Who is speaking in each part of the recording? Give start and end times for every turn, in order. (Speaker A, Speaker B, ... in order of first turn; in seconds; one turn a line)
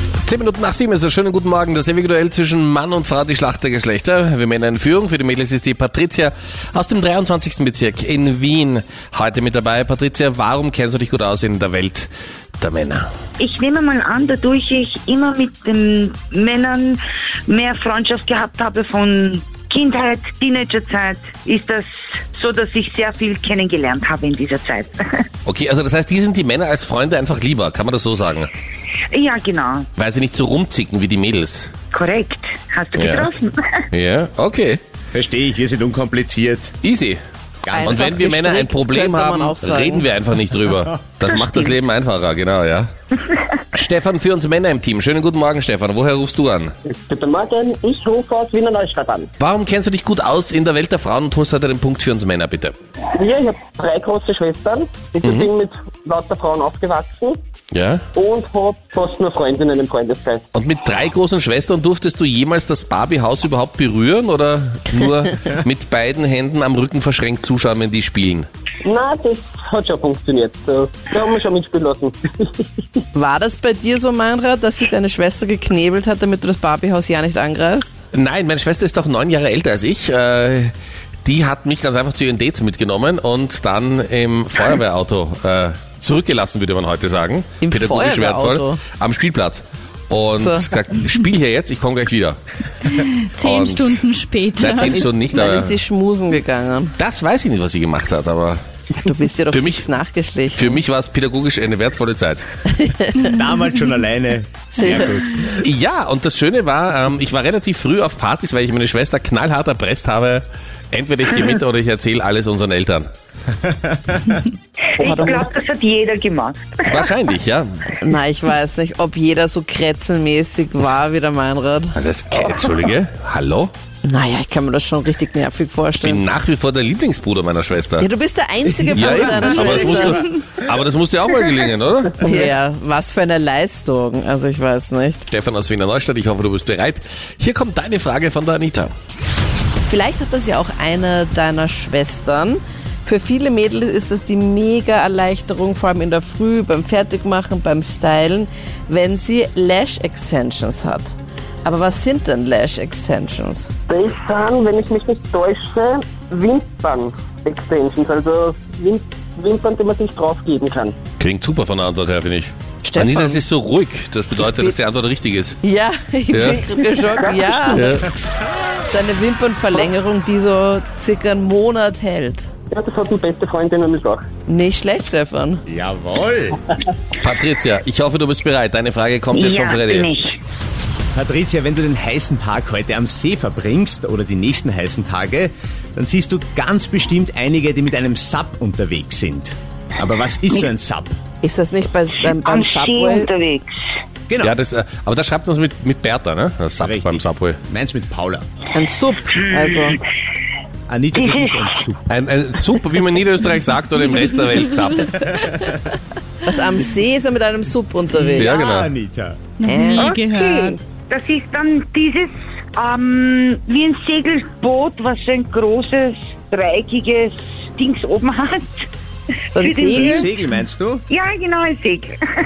Speaker A: 0.2-12.1
Speaker A: 12.6-13.1
Speaker B: 13.4-25.2
Speaker A: 25.4-28.5
Speaker B: 29.1-29.9
Speaker A: 30.0-31.7
Speaker B: 31.9-33.9
Speaker A: 32.9-33.3
Speaker A: 33.9-34.8
Speaker C: 35.1-36.7
Speaker A: 36.8-37.2
Speaker C: 37.6-38.1
Speaker D: 37.7-40.1
Speaker A: 37.8-42.9
Speaker A: 43.7-46.7
Speaker E: 47.1-49.3
Speaker A: 49.4-52.7
Speaker E: 53.1-57.4
Speaker A: 55.2-55.5
Speaker A: 57.7-58.0
Speaker E: 58.1-60.4
Speaker A: 60.5-68.5
Speaker E: 68.8-72.6
Speaker D: 73.1-78.0
Speaker A: 78.1-80.7
Speaker A: 81.2-94.0
Speaker D: 87.6-88.8
Speaker D: 90.4-90.7
Speaker F: 93.0-95.1
Speaker A: 94.5-95.8
Speaker D: 94.6-96.9
Speaker A: 97.0-98.6
Speaker D: 99.0-100.8
Speaker A: 99.5-99.9
Speaker A: 100.5-102.4
Speaker D: 102.7-103.4
Speaker C: 103.2-105.7
Speaker D: 104.8-105.1
Speaker A: 105.6-113.1
Speaker C: 113.6-114.4
Speaker B: 115.0-117.0
Speaker D: 115.0-115.5
Speaker A: 116.8-118.0
Speaker D: 118.0-122.0
Speaker A: 121.9-123.7
Speaker D: 124.0-126.2
Speaker A: 126.0-128.1
Speaker D: 128.0-130.2
Speaker C: 128.8-130.3
Speaker A: 128.9-132.3
Speaker D: 132.2-135.2
Speaker A: 135.3-138.9
Speaker D: 139.9-153.7
Speaker E: 153.9-161.0
Speaker A: 161.2-165.6
Speaker D: 162.8-163.4
Speaker D: 164.4-164.7
Speaker D: 165.6-168.0
Speaker A: 166.3-166.6
Speaker E: 167.1-167.8
Speaker A: 167.7-168.0
Speaker D: 168.9-172.5
Speaker E: 172.7-174.2
Speaker D: 174.5-175.6
Speaker C: 175.7-176.7
Speaker A: 177.2-180.1
Speaker B: 179.3-180.4
Speaker C: 181.1-191.2
Speaker D: 191.4-193.3
Speaker B: 192.3-193.7
Speaker C: 194.3-194.5
Speaker A: 194.4-197.6
Speaker C: 196.8-198.4
Speaker D: 198.7-200.0
Speaker B: 199.4-200.0
Speaker C: 200.9-202.1
Speaker B: 201.2-201.8
Speaker A: 202.1-205.2
Speaker C: 205.1-205.9
Speaker D: 206.4-208.6
Speaker C: 208.1-209.4
Speaker A: 208.4-208.9
Speaker F: 209.6-210.9
Speaker D: 209.6-210.1
Speaker B: 209.9-218.9
Speaker D: 219.6-220.3
Speaker B: 219.6-220.3
Speaker C: 219.9-221.0
Speaker B: 221.1-222.2